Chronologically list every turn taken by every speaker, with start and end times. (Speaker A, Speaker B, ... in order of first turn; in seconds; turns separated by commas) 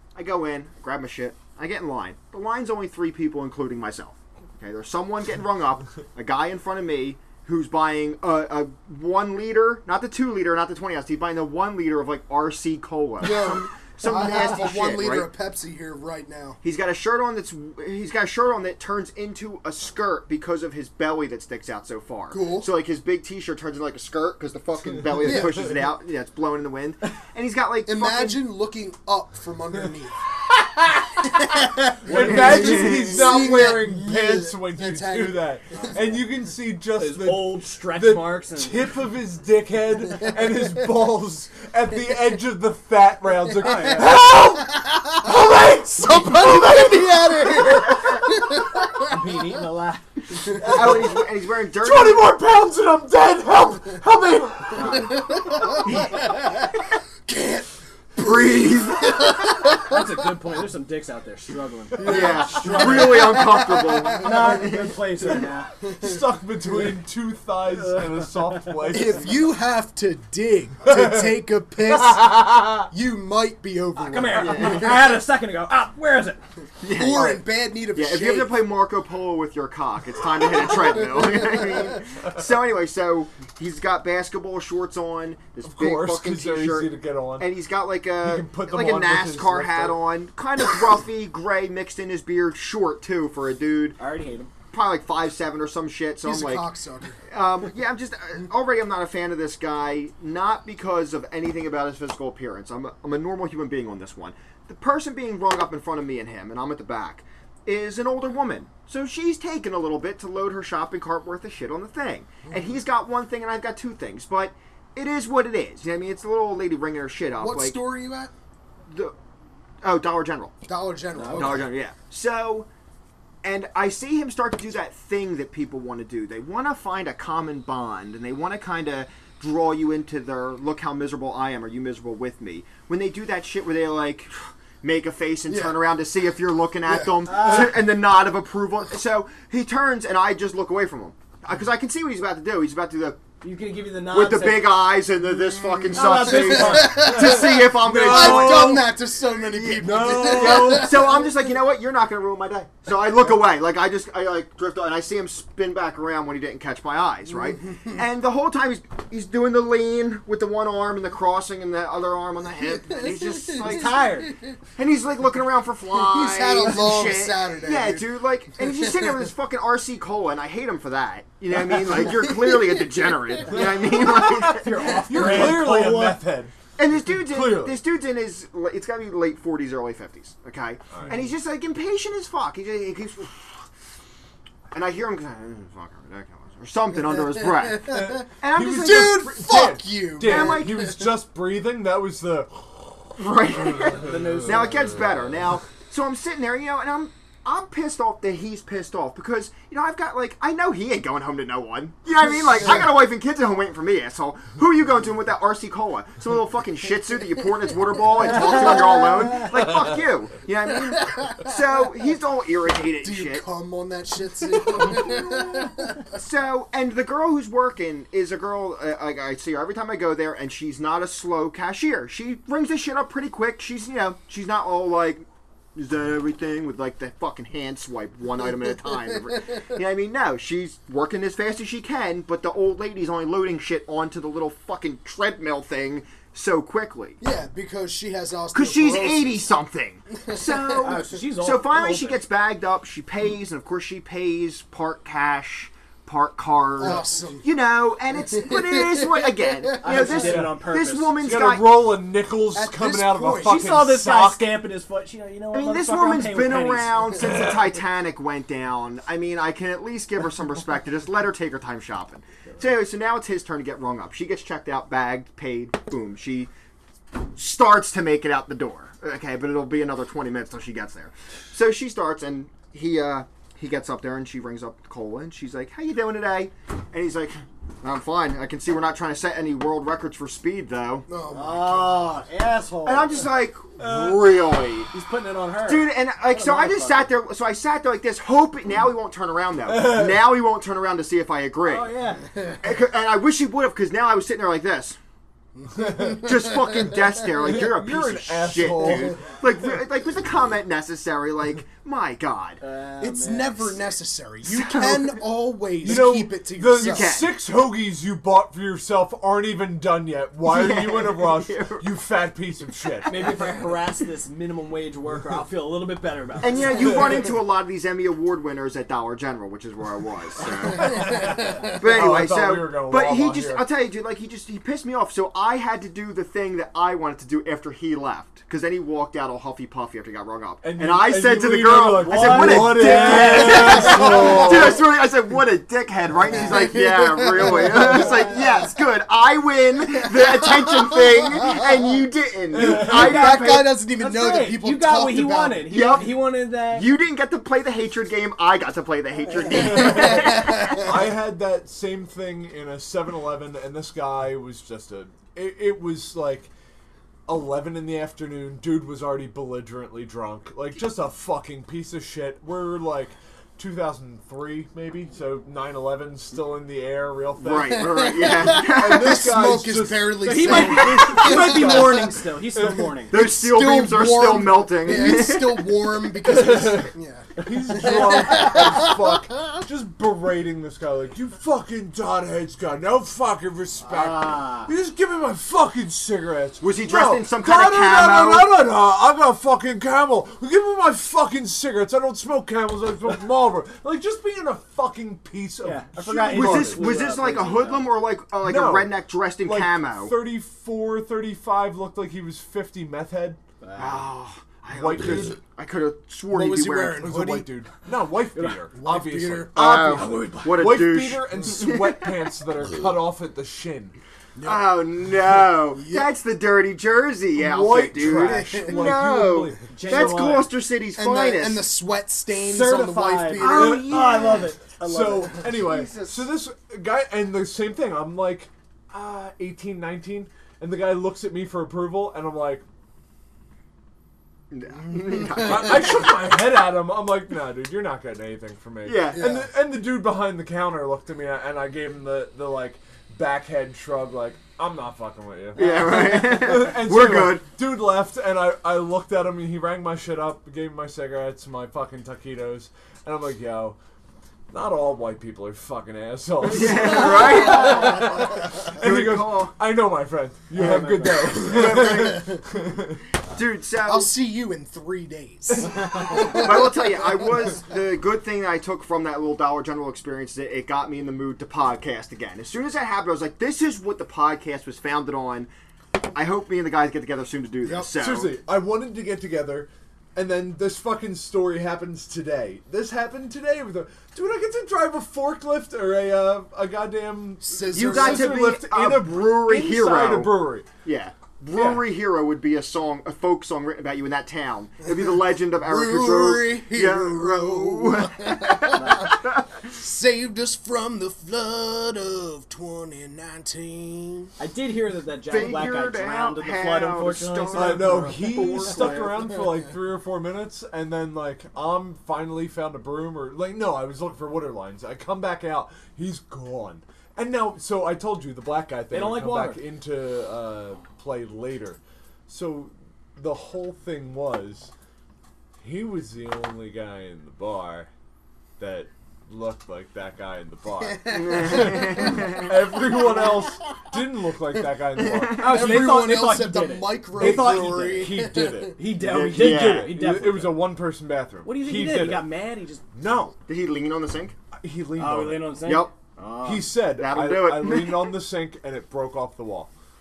Speaker A: 0.1-15.3, Speaker B: 13.2-16.6, Speaker A: 16.6-28.4, Speaker B: 22.3-22.7, Speaker B: 25.2-25.6, Speaker B: 27.9-30.2, Speaker B: 31.3-35.9, Speaker C: 32.0-48.2, Speaker A: 32.1-33.6, Speaker D: 36.9-38.9, Speaker D: 43.6-44.2, Speaker B: 46.0-49.2, Speaker D: 49.0-50.6, Speaker C: 50.5-55.8, Speaker A: 50.6-52.3, Speaker D: 54.8-55.2, Speaker B: 55.0-56.7, Speaker A: 55.9-56.1, Speaker B: 57.2-60.1, Speaker A: 58.2-59.7, Speaker D: 59.8-65.7, Speaker B: 62.0-64.5, Speaker A: 62.0-65.5, Speaker B: 65.8-66.2, Speaker C: 66.0-69.4, Speaker D: 67.7-68.7, Speaker B: 68.9-75.2, Speaker C: 70.8-71.3, Speaker C: 71.9-72.9, Speaker D: 74.0-76.4, Speaker A: 74.3-75.1, Speaker A: 76.8-94.0, Speaker B: 76.9-78.6, Speaker C: 85.6-87.5, Speaker C: 88.2-90.0, Speaker D: 94.0-94.5, Speaker A: 94.7-96.7, Speaker B: 96.2-97.2, Speaker A: 97.3-117.8, Speaker B: 117.4-118.3, Speaker A: 118.9-119.1, Speaker A: 119.8-120.5, Speaker B: 120.7-121.7, Speaker D: 121.2-121.6, Speaker A: 121.3-122.7, Speaker A: 123.4-143.2, Speaker B: 135.5-135.8, Speaker B: 136.9-137.3, Speaker D: 137.2-137.9, Speaker D: 143.4-144.9, Speaker A: 144.1-164.1, Speaker B: 145.4-151.2, Speaker D: 145.9-147.4, Speaker C: 147.6-148.8, Speaker D: 149.8-151.1, Speaker B: 157.4-158.0, Speaker B: 162.9-164.5, Speaker D: 163.6-164.3, Speaker A: 164.8-175.5, Speaker B: 165.9-169.1, Speaker B: 172.0-173.1, Speaker C: 173.5-177.8, Speaker D: 174.4-176.2, Speaker A: 176.8-183.6, Speaker C: 180.9-181.2, Speaker A: 184.7-189.2, Speaker B: 187.7-191.1, Speaker C: 187.9-194.7, Speaker A: 190.2-190.9, Speaker A: 193.2-213.4, Speaker D: 194.0-195.0, Speaker D: 208.4-209.2, Speaker B: 211.0-211.5, Speaker B: 213.0-216.0, Speaker A: 214.6-237.2, Speaker B: 228.8-229.2, Speaker B: 237.2-239.5, Speaker A: 238.5-251.7, Speaker B: 240.2-241.0, Speaker D: 240.8-242.2, Speaker B: 246.8-247.4, Speaker B: 248.3-250.1, Speaker D: 249.8-251.2, Speaker C: 250.2-250.6, Speaker C: 251.2-254.5, Speaker B: 252.5-253.6, Speaker D: 253.4-257.6, Speaker A: 255.5-266.5, Speaker A: 267.1-281.1, Speaker B: 281.1-282.1, Speaker D: 281.3-283.3, Speaker A: 282.8-284.9, Speaker D: 283.8-284.4, Speaker D: 284.9-287.1, Speaker A: 285.6-291.9, Speaker C: 289.7-290.2, Speaker D: 291.6-292.3, Speaker B: 292.3-292.6, Speaker A: 292.6-295.0, Speaker B: 295.6-296.9, Speaker A: 295.9-302.6, Speaker C: 297.4-299.2, Speaker D: 302.6-303.8, Speaker B: 303.0-307.1, Speaker A: 304.4-305.2, Speaker C: 305.8-313.3, Speaker A: 306.8-307.3, Speaker A: 310.4-311.9, Speaker D: 313.1-317.3, Speaker A: 316.4-343.7, Speaker C: 316.8-317.2, Speaker C: 320.8-323.6, Speaker B: 320.9-321.6, Speaker C: 330.6-334.8, Speaker D: 331.9-334.8, Speaker B: 333.6-334.3, Speaker B: 336.3-338.6, Speaker D: 337.7-338.6, Speaker C: 342.5-343.1, Speaker D: 342.6-346.9, Speaker B: 342.6-345.8, Speaker A: 345.7-351.0, Speaker C: 349.5-356.5, Speaker B: 349.5-350.8, Speaker C: 357.3-373.0, Speaker A: 367.4-369.3, Speaker B: 367.6-372.2, Speaker D: 370.2-373.1, Speaker A: 370.8-371.2, Speaker A: 373.1-375.8, Speaker B: 373.1-379.1, Speaker C: 376.2-396.9, Speaker D: 383.9-384.7, Speaker A: 386.6-388.5, Speaker D: 395.6-397.9, Speaker A: 396.3-400.1, Speaker C: 398.4-398.9, Speaker C: 399.4-403.4, Speaker D: 403.6-404.1, Speaker A: 403.8-407.1, Speaker C: 404.7-405.4, Speaker B: 406.3-407.5, Speaker C: 407.0-413.9, Speaker B: 408.7-409.5, Speaker A: 409.5-412.1, Speaker D: 409.8-410.7, Speaker B: 414.4-416.1, Speaker A: 414.4-421.6, Speaker C: 417.3-420.4, Speaker B: 418.1-418.9, Speaker D: 419.7-420.5, Speaker B: 420.9-423.9, Speaker D: 422.4-425.6, Speaker C: 423.4-432.6, Speaker A: 423.4-424.5, Speaker A: 425.6-426.2, Speaker A: 434.5-436.2, Speaker B: 435.1-435.4, Speaker C: 435.4-453.8, Speaker A: 438.8-439.3, Speaker B: 439.1-439.5, Speaker A: 445.6-447.4, Speaker D: 445.6-446.2, Speaker C: 454.5-463.0, Speaker A: 456.4-459.5, Speaker D: 460.5-461.4, Speaker A: 460.5-462.5, Speaker B: 461.5-462.4, Speaker A: 463.3-464.1, Speaker B: 463.8-467.5, Speaker A: 466.1-475.5, Speaker A: 476.1-478.3, Speaker B: 477.6-477.9, Speaker C: 477.9-490.7, Speaker B: 487.4-488.4, Speaker A: 487.7-499.7, Speaker C: 491.5-491.8, Speaker B: 495.5-504.3, Speaker D: 498.8-499.1, Speaker D: 504.4-509.2, Speaker A: 505.3-509.2, Speaker C: 507.5-524.7, Speaker D: 518.9-519.6, Speaker C: 525.6-527.9, Speaker C: 528.6-536.3, Speaker B: 530.8-533.5, Speaker A: 531.0-532.5, Speaker A: 535.0-535.3, Speaker B: 535.4-538.8, Speaker D: 535.4-540.7, Speaker C: 537.1-542.2, Speaker A: 539.0-540.0, Speaker D: 541.4-542.8, Speaker C: 542.9-543.3, Speaker A: 543.5-544.4, Speaker C: 544.5-545.6, Speaker D: 545.0-546.8, Speaker A: 545.6-545.9, Speaker C: 546.4-549.7, Speaker A: 546.9-548.1